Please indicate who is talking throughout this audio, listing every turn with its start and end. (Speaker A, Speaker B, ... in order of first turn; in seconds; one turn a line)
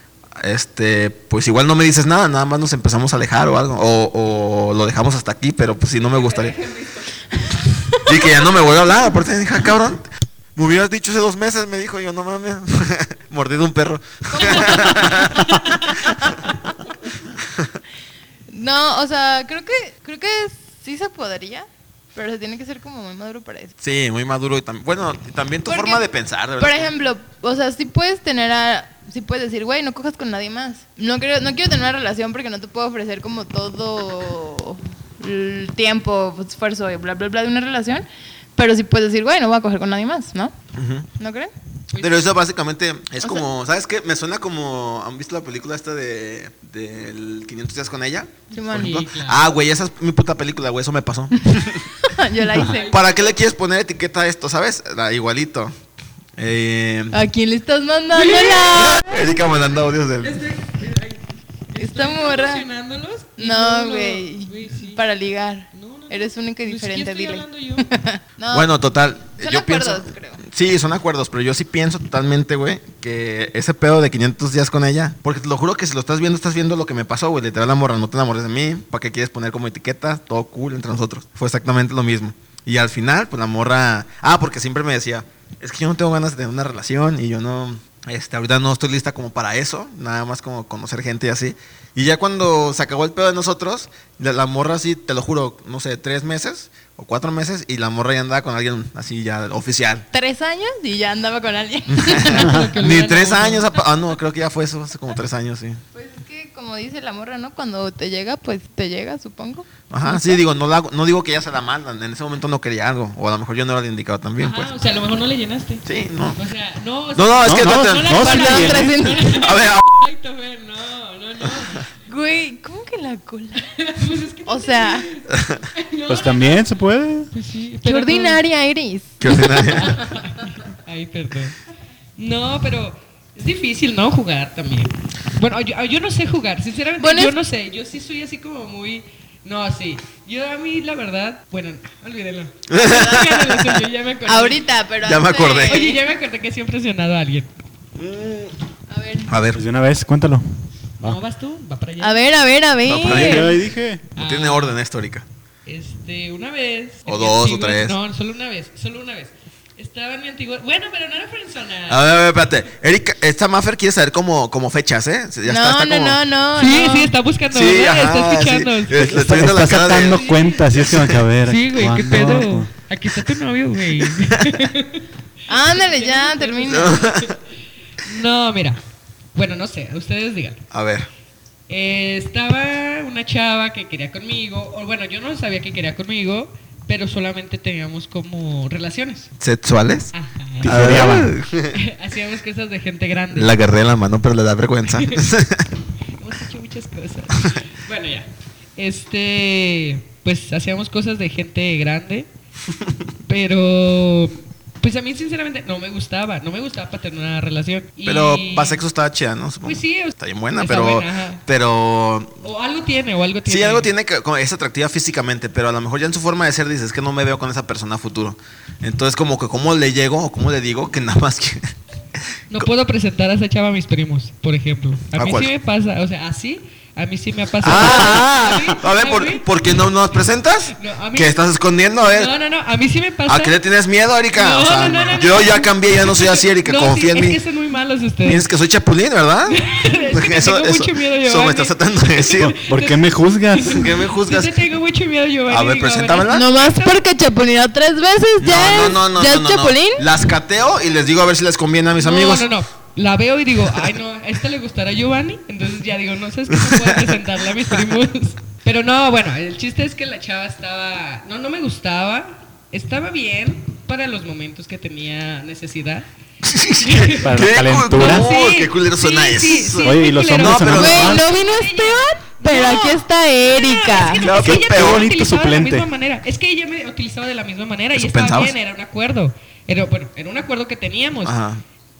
Speaker A: 0.4-6.7
Speaker B: 7.7-8.1
Speaker A: 8.0-10.0
Speaker A: 10.6-16.5
Speaker B: 14.3-15.2
Speaker B: 15.8-16.4
Speaker A: 17.4-17.7
Speaker B: 18.5-23.7
Speaker A: 23.8-26.9
Speaker B: 25.7-26.1
Speaker B: 26.6-40.5
Speaker A: 40.7-41.1
Speaker B: 41.2-41.5
Speaker C: 41.9-42.3
Speaker A: 42.0-52.0
Speaker B: 48.5-49.0
Speaker C: 48.7-49.4
Speaker B: 52.0-53.0
Speaker C: 52.7-52.9
Speaker A: 52.8-55.7
Speaker A: 56.4-57.2
Speaker B: 57.1-59.2
Speaker C: 58.1-58.9
Speaker A: 58.7-60.4
Speaker C: 60.2-65.0
Speaker B: 61.8-62.6
Speaker B: 63.4-68.7
Speaker C: 65.7-67.9
Speaker A: 68.5-100.1
Speaker B: 69.4-70.4
Speaker B: 100.1-102.5
Speaker A: 101.9-105.8
Speaker C: 102.2-103.7
Speaker B: 105.9-110.4
Speaker A: 109.9-114.7
Speaker C: 114.4-121.9
Speaker A: 115.8-116.4
Speaker A: 117.1-118.6
Speaker D: 117.4-118.9
Speaker B: 118.2-119.4
Speaker A: 119.2-119.9
Speaker B: 122.1-123.7
Speaker C: 123.8-126.6
Speaker B: 124.5-125.1
Speaker A: 125.3-125.6
Speaker D: 126.0-127.3
Speaker C: 127.3-128.4
Speaker B: 127.8-129.7
Speaker A: 129.2-130.1
Speaker C: 129.3-131.6
Speaker C: 132.2-144.6
Speaker B: 137.0-137.3
Speaker A: 142.7-143.8
Speaker B: 142.8-143.2
Speaker B: 144.2-146.0
Speaker A: 145.0-145.8
Speaker C: 145.7-147.5
Speaker A: 148.0-148.5
Speaker B: 148.9-149.3
Speaker A: 149.3-149.6
Speaker D: 149.5-150.5
Speaker C: 151.0-152.2
Speaker B: 152.0-153.5
Speaker A: 152.8-153.6
Speaker D: 153.0-154.0
Speaker C: 154.2-154.8
Speaker A: 154.2-155.2
Speaker C: 155.7-162.0
Speaker A: 157.1-158.0
Speaker A: 161.9-166.2
Speaker B: 165.4-167.1
Speaker C: 166.6-170.7
Speaker A: 167.5-171.2
Speaker D: 168.9-172.7
Speaker C: 171.4-177.3
Speaker B: 175.5-177.1
Speaker A: 176.7-177.4
Speaker C: 178.0-178.8
Speaker C: 179.3-180.6
Speaker A: 180.7-181.1
Speaker C: 181.7-189.3
Speaker A: 189.4-190.1
Speaker C: 190.1-193.6
Speaker D: 190.6-191.4
Speaker A: 190.6-191.8
Speaker A: 193.3-195.7
Speaker C: 194.9-195.2
Speaker C: 196.2-202.3
Speaker C: 203.2-208.8
Speaker A: 208.0-212.3
Speaker C: 209.6-211.4
Speaker C: 212.4-213.9
Speaker A: 213.4-221.6
Speaker C: 222.5-229.4
Speaker A: 225.2-225.5
Speaker A: 227.6-232.3
Speaker C: 230.7-231.4
Speaker C: 232.0-233.6
Speaker A: 233.2-237.4
Speaker C: 234.3-238.5
Speaker A: 238.2-242.5
Speaker C: 239.5-247.0
Speaker D: 242.4-243.9
Speaker A: 243.7-244.5
Speaker A: 245.5-246.5
Speaker B: 246.3-250.1
Speaker A: 248.4-252.5
Speaker C: 252.0-266.1
Speaker A: 256.6-257.1
Speaker A: 266.4-271.2
Speaker C: 266.8-281.3
Speaker D: 267.2-268.3
Speaker D: 269.8-271.2
Speaker B: 270.8-274.2
Speaker A: 274.1-275.0
Speaker D: 274.4-275.9
Speaker A: 277.9-278.5
Speaker A: 281.2-281.6